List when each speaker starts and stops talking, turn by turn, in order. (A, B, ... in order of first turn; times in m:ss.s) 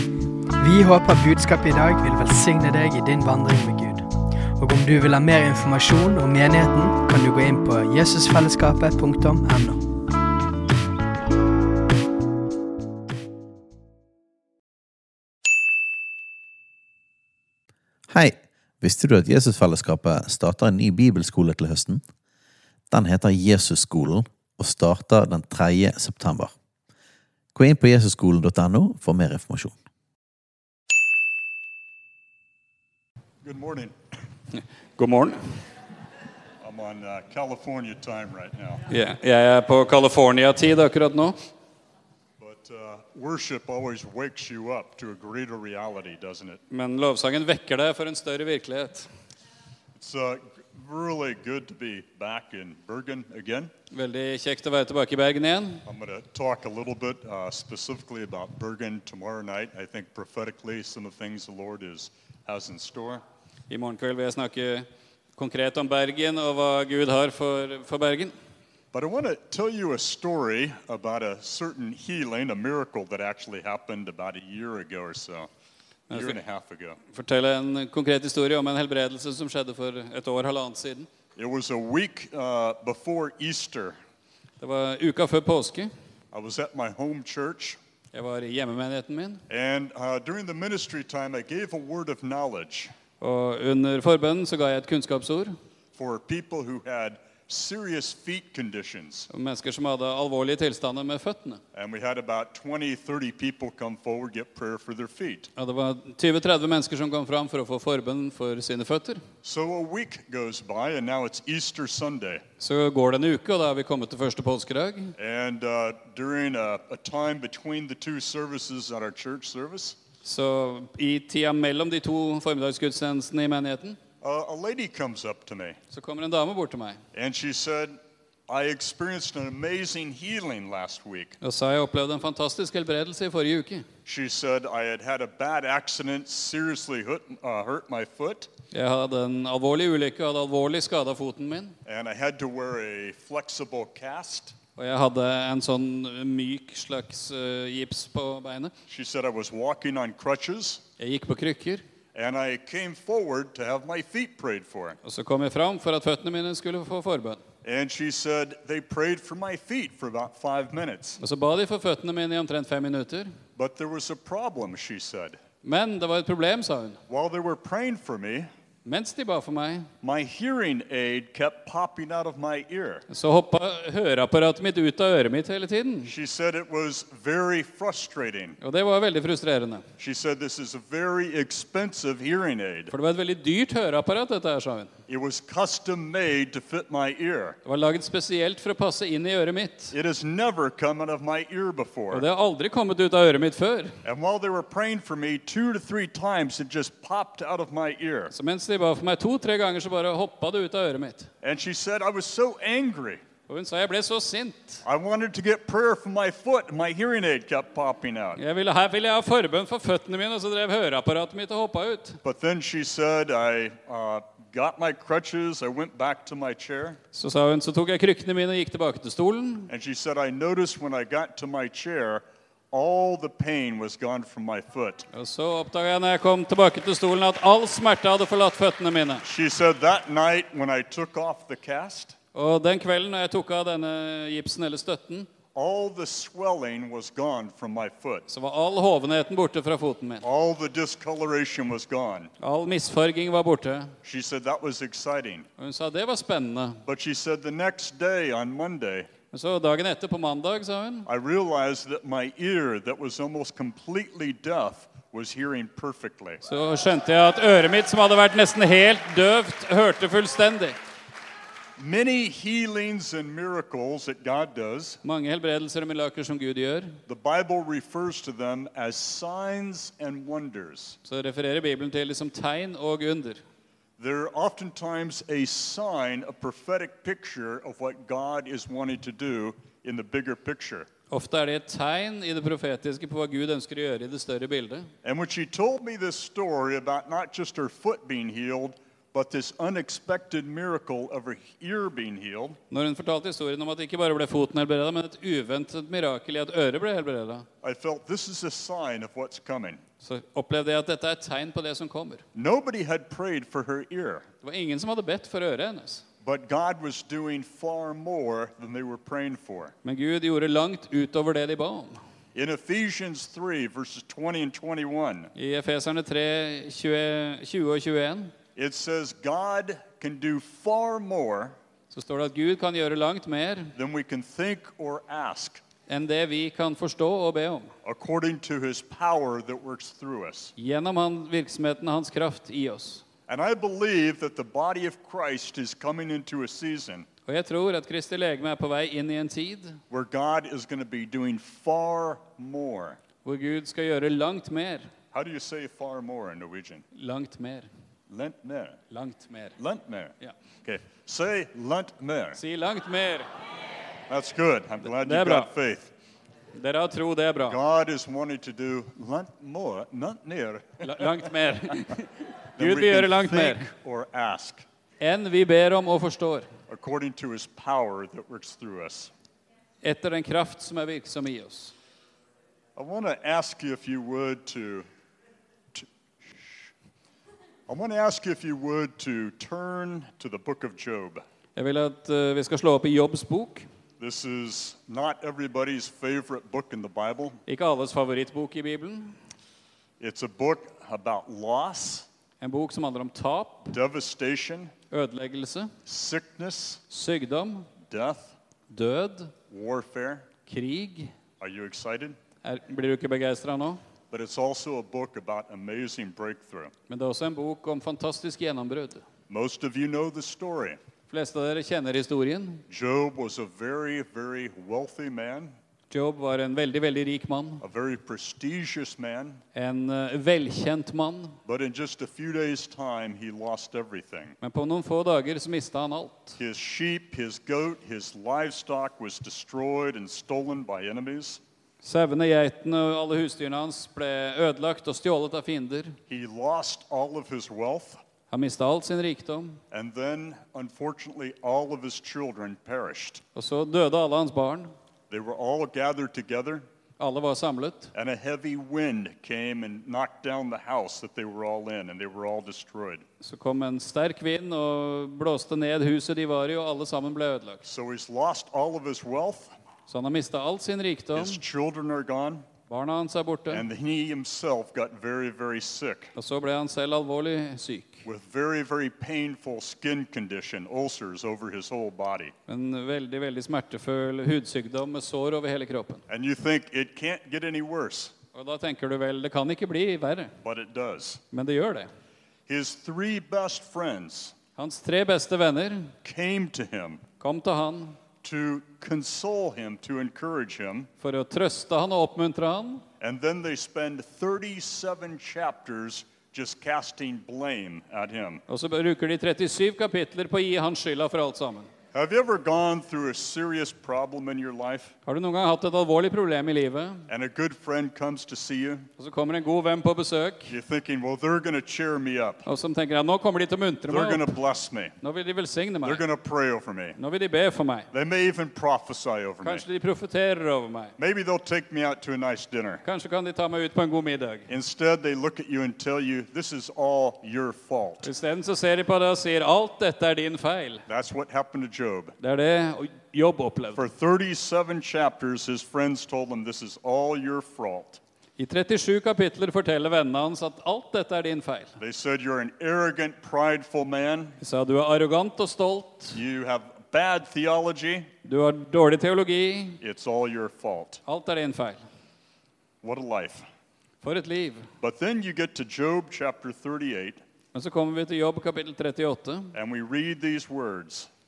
0:00.6-0:09.8 A
0:18.1-0:22.0 B
0:22.9-0:26.5 B
0:27.5-0:29.7 B
0:33.4-0:33.9 C
0:34.5-0:35.4 D
0:36.6-0:38.8 C
0:38.9-0:41.4 D
0:42.4-0:46.6 C
0:46.7-0:49.1 D
0:49.9-0:53.7 C
0:53.9-0:55.8 D
0:55.8-1:03.2 C
1:03.7-1:08.3 D
1:08.9-1:15.5 C
1:16.1-1:16.4 D
1:16.1-1:17.0 C
1:17.1-1:21.1 D
1:21.4-1:24.0 C
1:24.6-1:25.9 D
1:26.3-1:27.8 C
1:28.1-1:29.4 D
1:29.5-1:32.9 C
1:33.2-1:35.5 D
1:35.9-1:39.3 C
1:39.3-1:41.6 D
1:41.7-1:45.5 C
1:45.6-1:49.2 D
1:49.4-1:52.4 C
1:52.6-1:55.2 D
1:55.2-2:00.0 C
2:00.2-2:04.0 D
2:04.2-2:05.8 C
2:05.9-2:07.0 D
2:07.1-2:11.4 C
2:11.4-2:13.8 D
2:14.0-2:18.5 C
2:18.7-2:21.8 D
2:21.8-2:24.6 C
2:24.8-2:28.7 D
2:28.9-2:30.8 C
2:31.0-2:31.8 D
2:32.1-2:35.0 C
2:35.0-2:37.4 D
2:37.6-2:41.2 C
2:41.2-2:43.3 D
2:43.6-2:45.4 C
2:45.6-2:47.0 D
2:47.1-2:48.5 C
2:48.8-2:49.9 D
2:50.0-2:53.0 C
2:53.1-2:56.1 D
2:56.0-2:58.6 C
2:58.6-2:59.9 D
3:00.0-3:02.9 C
3:02.9-3:04.9 D
3:05.1-3:07.6 C
3:07.6-3:09.9 D
3:09.9-3:12.2 C
3:12.1-3:14.0 D
3:14.0-3:18.3 C
3:18.3-3:21.3 D
3:21.4-3:23.2 C
3:23.5-3:24.8 D
3:24.8-3:28.4 C
3:28.4-3:32.2 D
3:32.2-3:37.0 C
3:37.1-3:39.7 D
3:39.7-3:45.1 C
3:45.1-3:49.2 D
3:49.2-3:52.2 C
3:52.3-3:55.3 D
3:55.5-3:58.3 C
3:58.3-4:00.2 D
4:00.2-4:02.3 C
4:02.4-4:04.0 D
4:04.0-4:05.5 C
4:05.6-4:06.8 D
4:06.8-4:09.1 C
4:09.3-4:11.1 D
4:11.0-4:16.4 C
4:16.4-4:20.8 D
4:21.8-4:25.0 C
4:25.0-4:27.0 D
4:27.1-4:31.0 C
4:31.0-4:33.4 D
4:34.0-4:40.9 C
4:41.1-4:44.9 D
4:45.0-4:52.6 C
4:52.7-4:57.5 D
4:57.6-4:59.8 C
5:00.0-5:02.2 D
5:02.3-5:04.3 C
5:04.4-5:06.0 D
5:06.2-5:09.7 C
5:09.8-5:12.0 D
5:12.3-5:15.3 C
5:15.3-5:18.3 D
5:18.6-5:21.6 C
5:21.9-5:23.7 D
5:23.8-5:25.6 C
5:25.9-5:27.7 D
5:27.8-5:30.5 C
5:30.6-5:33.0 D
5:33.3-5:37.1 C
5:37.2-5:39.8 D
5:39.9-5:43.0 C
5:43.2-5:44.9 D
5:45.1-5:46.8 C
5:46.9-5:47.7 D
5:48.1-5:48.8 C
5:48.9-5:49.6 D
5:49.6-5:52.4 C
5:52.3-5:53.3 D
5:54.1-5:55.9 C
5:54.9-5:55.5 D
5:56.5-5:57.6 D
5:57.5-6:01.3 C
6:00.8-6:03.7 D
6:02.6-6:04.6 C
6:05.0-6:06.5 D
6:06.7-6:09.1 C
6:09.8-6:11.7 D
6:12.8-6:14.8 C
6:15.7-6:16.7 C
6:17.7-6:21.2 C
6:21.6-6:23.6 D
6:24.0-6:27.4 C
6:27.5-6:29.2 D
6:30.0-6:32.1 C
6:32.4-6:33.8 D
6:33.7-6:34.7 C
6:34.9-6:35.7 D
6:35.8-6:36.8 C
6:36.9-6:37.7 D
6:37.8-6:38.4 C
6:38.7-6:39.3 D
6:39.5-6:40.3 C
6:40.5-6:41.1 D
6:41.4-6:42.2 C
6:42.4-6:43.8 D
6:44.1-6:46.7 C
6:46.9-6:49.0 D
6:49.3-6:50.8 C
6:51.1-6:52.6 D
6:52.7-6:55.5 C
6:55.9-6:57.6 D
6:57.6-6:59.4 C
6:59.5-7:01.4 D
7:01.4-7:04.4 C
7:04.4-7:06.4 D
7:06.4-7:11.4 C
7:11.8-7:16.0 D
7:16.1-7:18.0 C
7:18.3-7:19.6 D
7:19.7-7:23.2 C
7:23.3-7:24.7 D
7:25.1-7:26.6 C
7:27.0-7:27.9 D
7:27.9-7:33.0 C
7:33.2-7:37.6 D
7:37.6-7:39.5 C
7:39.9-7:41.4 D
7:41.1-7:42.5 C
7:42.7-7:43.6 D
7:43.5-7:46.1 C
7:46.1-7:48.0 D
7:48.0-7:52.3 C
7:52.5-7:56.0 D
7:56.1-7:58.1 C
7:58.3-8:00.3 D
8:00.4-8:01.2 C
8:01.3-8:01.9 D
8:02.5-8:04.3 C
8:04.6-8:05.9 D
8:06.0-8:07.0 C
8:07.2-8:08.0 D
8:08.2-8:10.9 C
8:11.0-8:12.8 D
8:13.0-8:18.4 C
8:18.5-8:21.7 D
8:21.9-8:24.9 C
8:25.0-8:27.1 D
8:27.1-8:28.9 C
8:29.0-8:30.5 D
8:30.5-8:32.4 C
8:32.4-8:34.3 D
8:33.9-8:35.0 C
8:35.0-8:36.0 D
8:35.8-8:37.0 C
8:37.0-8:37.9 D
8:37.9-8:39.6 C
8:39.4-8:40.9 D
8:41.0-8:42.8 C
8:42.8-8:44.5 D
8:44.5-8:48.1 C
8:48.0-8:50.8 D
8:50.9-8:52.1 C
8:52.2-8:53.8 D
8:53.7-8:58.0 C
8:58.4-9:01.8 D
9:01.8-9:04.4 C
9:04.4-9:06.2 D
9:06.1-9:08.1 C
9:08.2-9:09.8 D
9:09.8-9:11.0 C
9:11.0-9:11.8 D
9:12.8-9:13.4 C
9:14.0-9:14.7 D
9:14.8-9:17.2 C
9:17.5-9:19.5 D
9:19.5-9:21.1 C